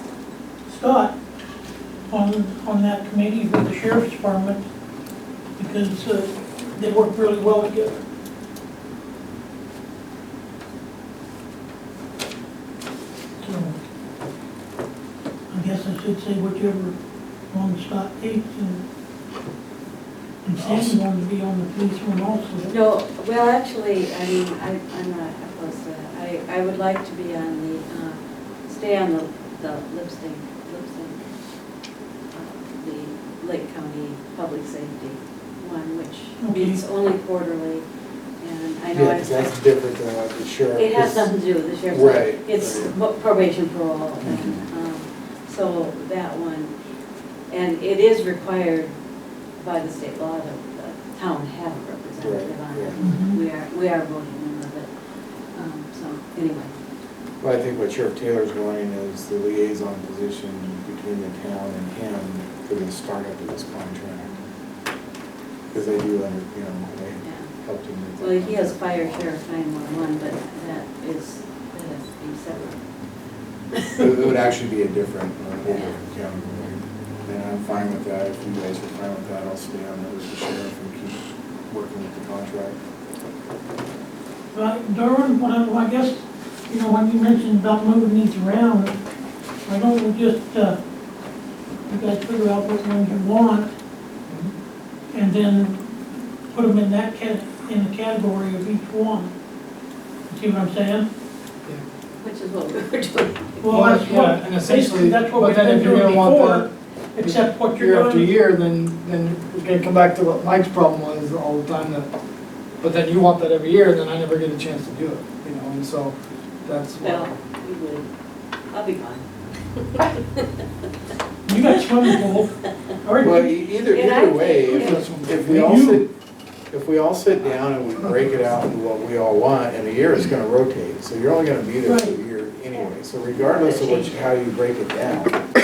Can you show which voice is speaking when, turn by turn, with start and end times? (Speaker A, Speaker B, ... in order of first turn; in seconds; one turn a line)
Speaker A: 0.7-1.1
Speaker A: 2.1-4.6
Speaker A: 5.6-8.0
Speaker A: 13.4-13.8
Speaker A: 15.5-17.0
Speaker A: 17.5-18.8
Speaker A: 20.5-22.8
Speaker B: 20.6-20.9
Speaker C: 22.7-31.2
Speaker C: 32.3-37.9
Speaker A: 36.4-36.8
Speaker C: 38.4-39.6
Speaker B: 38.9-41.3
Speaker C: 40.7-46.7
Speaker B: 41.9-43.0
Speaker B: 44.2-44.6
Speaker C: 47.5-48.9
Speaker C: 49.6-54.9
Speaker B: 52.2-53.0
Speaker A: 53.0-53.4
Speaker C: 55.5-56.7
Speaker B: 57.4-64.4
Speaker B: 65.7-69.3
Speaker C: 67.2-67.5
Speaker C: 68.2-72.8
Speaker C: 73.7-74.3
Speaker B: 74.0-82.8
Speaker C: 75.7-76.0
Speaker A: 84.5-89.0
Speaker A: 89.7-90.8
Speaker A: 91.9-93.7
Speaker D: 94.3-94.5
Speaker A: 95.1-95.9
Speaker A: 96.5-99.3
Speaker A: 100.3-101.1
Speaker C: 102.2-103.9
Speaker A: 103.6-108.3
Speaker D: 103.7-106.7
Speaker D: 107.2-112.1
Speaker D: 112.8-117.3
Speaker C: 117.0-118.1
Speaker C: 118.7-119.2
Speaker C: 120.0-120.5
Speaker A: 121.5-122.5
Speaker A: 123.0-123.6
Speaker B: 123.2-126.1
Speaker C: 123.8-125.1
Speaker D: 124.6-125.7
Speaker A: 125.4-126.0
Speaker B: 126.7-135.4
Speaker A: 131.8-132.2
Speaker C: 133.7-134.1